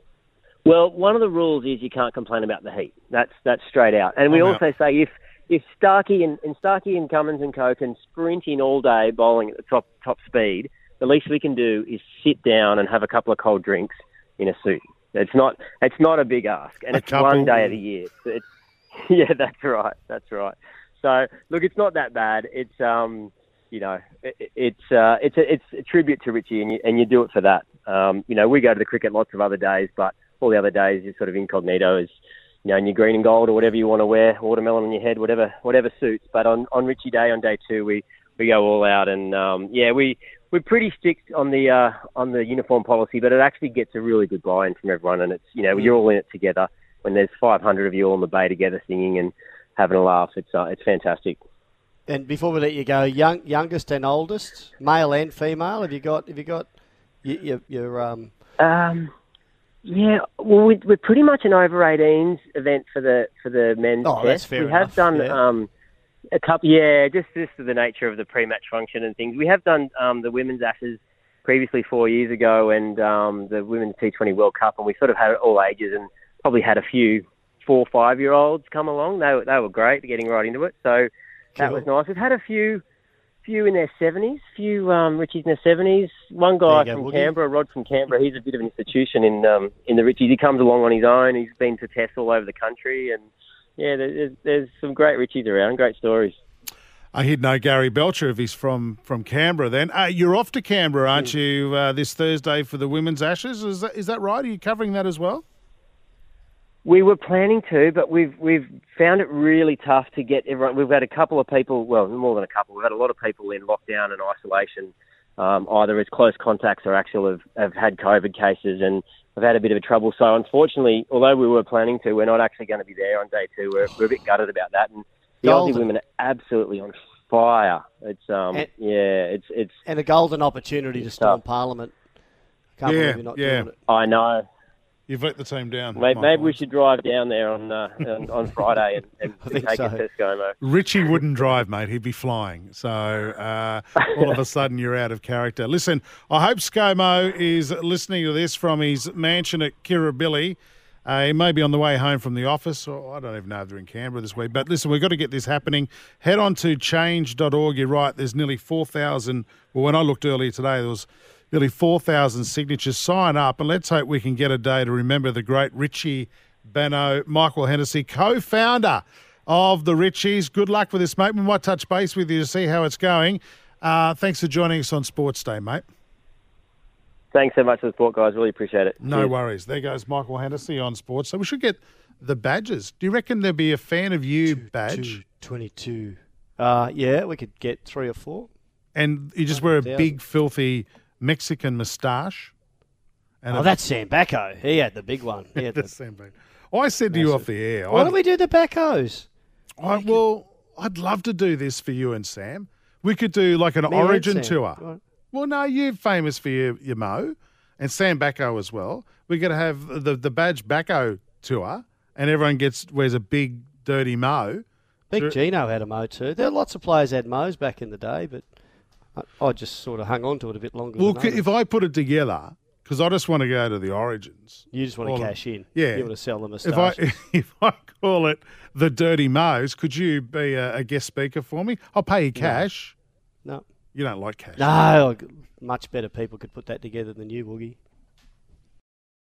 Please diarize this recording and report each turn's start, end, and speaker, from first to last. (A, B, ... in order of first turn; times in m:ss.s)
0:00.6-0:32.1 A
0:04.3-0:04.6 B
0:16.9-0:17.8 B
0:32.6-0:51.4 A
0:52.1-0:56.7 C
0:57.2-0:58.3 C
0:58.6-0:59.1 A
0:59.8-1:05.7 A
1:04.0-1:05.4 C
1:06.3-1:22.8 A
1:21.6-1:21.8 C
1:23.4-1:36.4 A
1:26.7-1:27.3 C
1:37.1-1:45.4 B
1:46.8-2:09.8 A
2:05.4-2:05.8 C
2:09.8-2:11.9 C
2:11.0-2:11.4 A
2:12.8-2:13.7 C
2:12.8-2:13.7 B
2:13.9-2:14.4 A
2:15.1-2:16.6 B
2:15.9-2:20.5 A
2:19.4-2:20.0 C
2:20.6-2:55.8 B
2:57.3-2:59.3 A
2:59.0-3:05.2 B
3:04.5-3:08.5 C
3:08.9-3:12.5 B
3:09.5-3:10.2 C
3:13.4-3:13.7 B
3:13.5-3:15.9 C
3:15.6-3:18.1 B
3:17.1-3:19.3 C
3:19.8-3:24.8 B
3:19.9-3:20.2 C
3:23.9-3:25.0 C
3:25.3-3:35.3 B
3:35.1-3:38.5 C
3:39.1-3:41.4 C
3:41.0-3:52.9 B
3:44.7-3:47.0 C
3:52.4-3:52.6 C
3:53.9-3:54.7 B
3:54.6-3:57.8 C